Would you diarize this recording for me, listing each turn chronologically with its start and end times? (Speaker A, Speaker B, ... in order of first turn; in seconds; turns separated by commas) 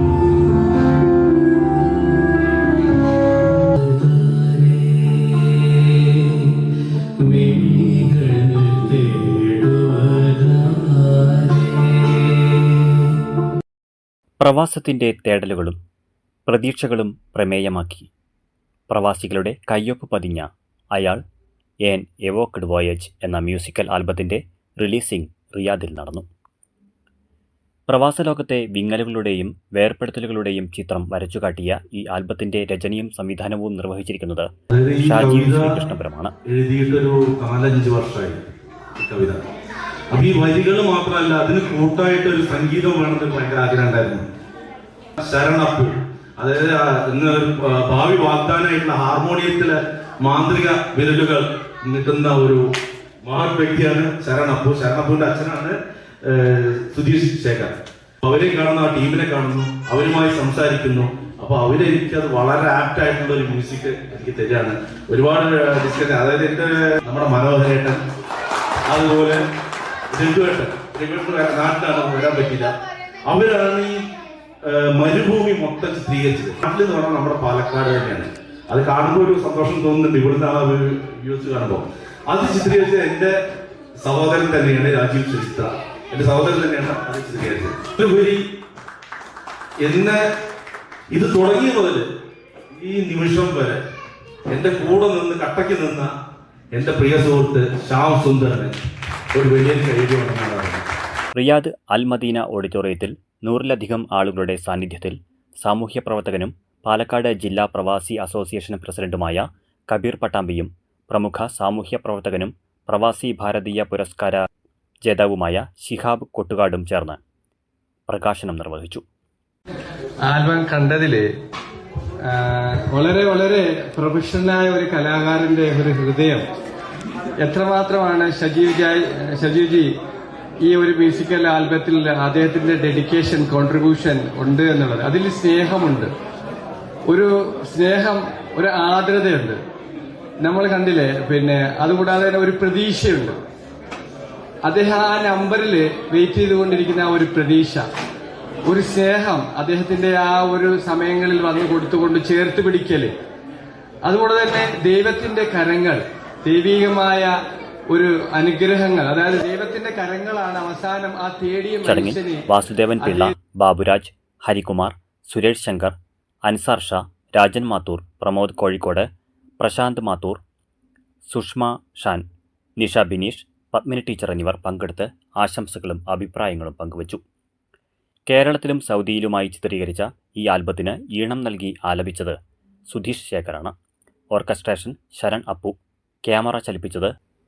Speaker A: 7.2-7.5, Speaker B: 7.5-8.3, Speaker A: 8.4-9.2, Speaker B: 14.4-15.8, Speaker B: 16.5-18.1, Speaker B: 18.9-21.2, Speaker B: 21.8-26.2, Speaker B: 27.9-36.3, Speaker C: 34.7-35.8, Speaker C: 36.4-39.4, Speaker C: 40.1-44.2, Speaker C: 45.2-52.6, Speaker C: 53.2-68.0, Speaker C: 68.9-69.4, Speaker C: 70.1-72.7, Speaker C: 73.2-74.1, Speaker C: 74.6-83.3, Speaker C: 84.0-88.4, Speaker C: 89.8-90.2, Speaker C: 91.1-92.0, Speaker C: 92.8-93.8, Speaker C: 94.5-96.1, Speaker C: 96.7-98.8, Speaker C: 99.3-100.8, Speaker B: 101.3-114.5, Speaker B: 115.0-117.2, Speaker B: 118.1-119.0, Speaker A: 120.2-121.3, Speaker A: 122.2-126.5, Speaker A: 127.4-129.9, Speaker A: 130.6-136.1, Speaker A: 137.1-139.6, Speaker A: 140.4-143.4, Speaker A: 144.6-147.8, Speaker A: 148.7-153.1, Speaker A: 154.0-157.3, Speaker A: 157.9-162.4, Speaker B: 161.8-165.9, Speaker A: 163.0-163.3, Speaker B: 166.4-169.1, Speaker B: 169.6-170.4, Speaker B: 171.3-172.2, Speaker B: 172.8-177.2, Speaker B: 178.3-182.4, Speaker B: 182.9-183.7, Speaker B: 184.3-187.1